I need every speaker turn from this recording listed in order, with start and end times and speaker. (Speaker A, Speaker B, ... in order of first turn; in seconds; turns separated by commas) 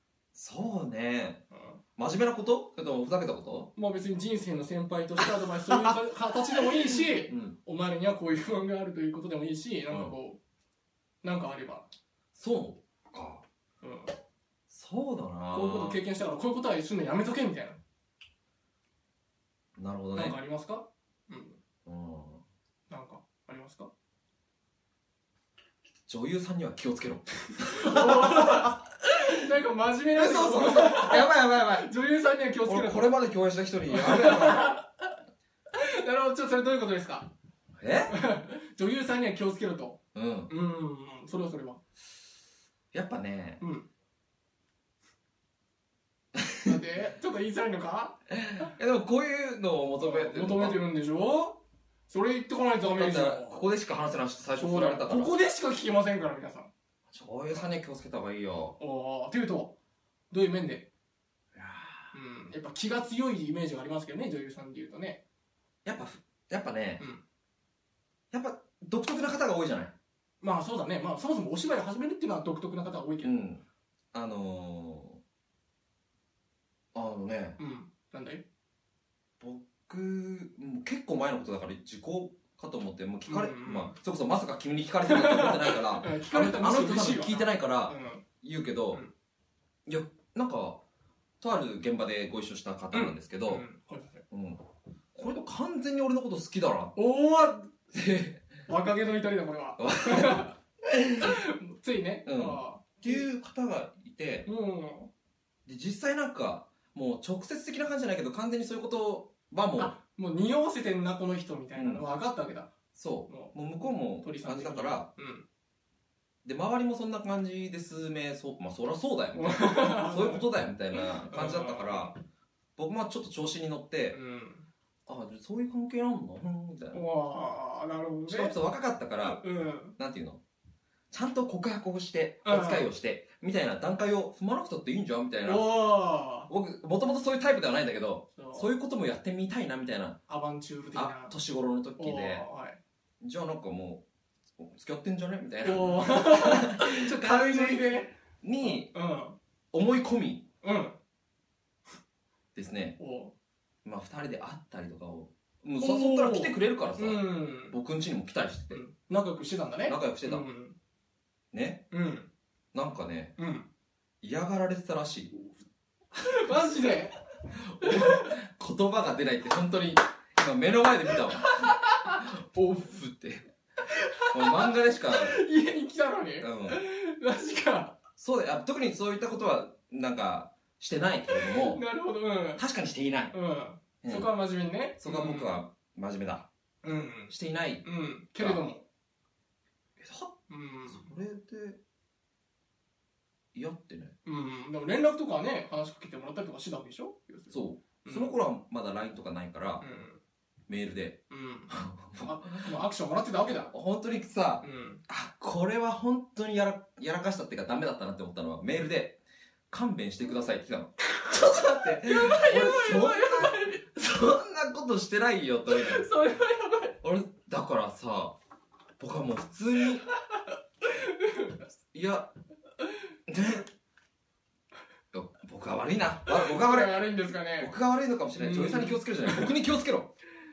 Speaker A: 0.3-1.4, Speaker B: 1.5-1.8, Speaker A: 2.0-3.7, Speaker B: 3.8-10.4, Speaker A: 5.4-6.0, Speaker A: 6.6-7.5, Speaker B: 11.2-11.9, Speaker A: 12.3-13.4, Speaker B: 13.8-14.1, Speaker A: 14.7-16.0, Speaker B: 15.5-17.8, Speaker A: 19.8-20.4, Speaker B: 20.1-21.6, Speaker A: 21.9-22.4, Speaker B: 22.9-23.9, Speaker A: 26.1-28.8, Speaker B: 27.5-33.1, Speaker A: 30.1-31.9, Speaker A: 32.6-34.7, Speaker B: 33.9-35.1, Speaker B: 35.7-37.3, Speaker A: 37.8-38.1, Speaker B: 38.1-41.8, Speaker A: 40.1-40.5, Speaker A: 42.9-43.6, Speaker B: 43.6-43.9, Speaker A: 46.3-46.8, Speaker B: 46.6-48.6, Speaker A: 48.3-50.8, Speaker B: 50.0-53.6, Speaker A: 53.0-55.3, Speaker B: 54.6-56.7, Speaker A: 57.1-58.8, Speaker B: 58.8-59.7, Speaker B: 60.3-60.9, Speaker A: 61.5-62.1, Speaker B: 62.1-65.2, Speaker A: 65.8-67.0, Speaker A: 68.3-69.9, Speaker B: 70.4-73.3, Speaker A: 73.2-75.2, Speaker A: 76.9-77.6, Speaker B: 77.6-78.4, Speaker A: 79.4-89.0, Speaker B: 83.3-84.0, Speaker B: 85.0-88.2, Speaker A: 89.9-90.8, Speaker A: 91.4-93.6, Speaker B: 92.9-94.2, Speaker A: 94.3-94.6, Speaker A: 95.1-96.9, Speaker B: 97.0-97.7, Speaker A: 97.9-98.5, Speaker B: 98.7-100.6, Speaker A: 99.8-101.4, Speaker B: 101.1-103.2, Speaker A: 102.2-104.5, Speaker B: 104.5-105.1, Speaker A: 105.7-110.0, Speaker B: 109.8-112.7, Speaker A: 111.7-112.0, Speaker A: 112.9-115.1, Speaker B: 113.3-113.5, Speaker B: 114.2-115.5, Speaker A: 116.4-122.1, Speaker B: 119.3-122.2, Speaker A: 122.8-124.2, Speaker B: 124.1-124.7, Speaker A: 125.0-127.0, Speaker B: 126.9-128.6, Speaker A: 128.3-129.4, Speaker B: 129.2-129.9, Speaker A: 130.0-130.4, Speaker A: 131.1-135.7, Speaker B: 132.4-132.9, Speaker B: 135.4-136.5, Speaker A: 136.5-140.2, Speaker B: 138.3-138.7, Speaker B: 140.3-141.3, Speaker A: 140.9-142.4, Speaker B: 142.0-142.8, Speaker A: 143.2-144.0, Speaker A: 144.6-148.9, Speaker B: 145.6-149.4, Speaker A: 149.7-150.4, Speaker B: 150.6-150.9, Speaker A: 152.5-153.0, Speaker B: 153.0-153.3, Speaker A: 153.8-158.8, Speaker B: 155.8-157.8, Speaker B: 158.7-160.7, Speaker A: 159.9-160.4, Speaker A: 161.5-161.9, Speaker B: 161.9-162.3, Speaker A: 162.7-163.4, Speaker B: 163.4-163.7, Speaker A: 164.2-165.4, Speaker B: 165.3-165.6, Speaker B: 166.2-168.4, Speaker A: 167.5-173.5, Speaker B: 171.7-172.8, Speaker B: 173.8-177.9, Speaker A: 174.3-175.4, Speaker A: 176.4-176.8, Speaker A: 178.2-181.8, Speaker B: 181.3-182.6, Speaker A: 182.6-183.3, Speaker B: 183.3-185.6, Speaker A: 184.0-184.3, Speaker A: 185.0-186.5, Speaker B: 186.8-187.3, Speaker A: 187.3-187.9, Speaker B: 187.8-188.8, Speaker A: 188.4-188.6, Speaker A: 190.0-190.4, Speaker B: 190.5-191.1, Speaker A: 190.9-191.8, Speaker A: 193.5-194.1, Speaker B: 194.2-198.3, Speaker A: 197.5-199.8, Speaker B: 199.8-200.2, Speaker A: 200.7-202.7, Speaker B: 201.3-203.7, Speaker A: 203.7-216.1, Speaker B: 204.6-205.0, Speaker B: 211.2-213.8, Speaker B: 215.7-216.9, Speaker A: 217.0-218.4, Speaker A: 219.0-220.0, Speaker B: 220.1-221.6, Speaker A: 221.9-222.3, Speaker A: 223.3-223.7, Speaker A: 225.1-227.1, Speaker B: 226.2-227.7, Speaker A: 227.6-230.1, Speaker B: 228.3-229.6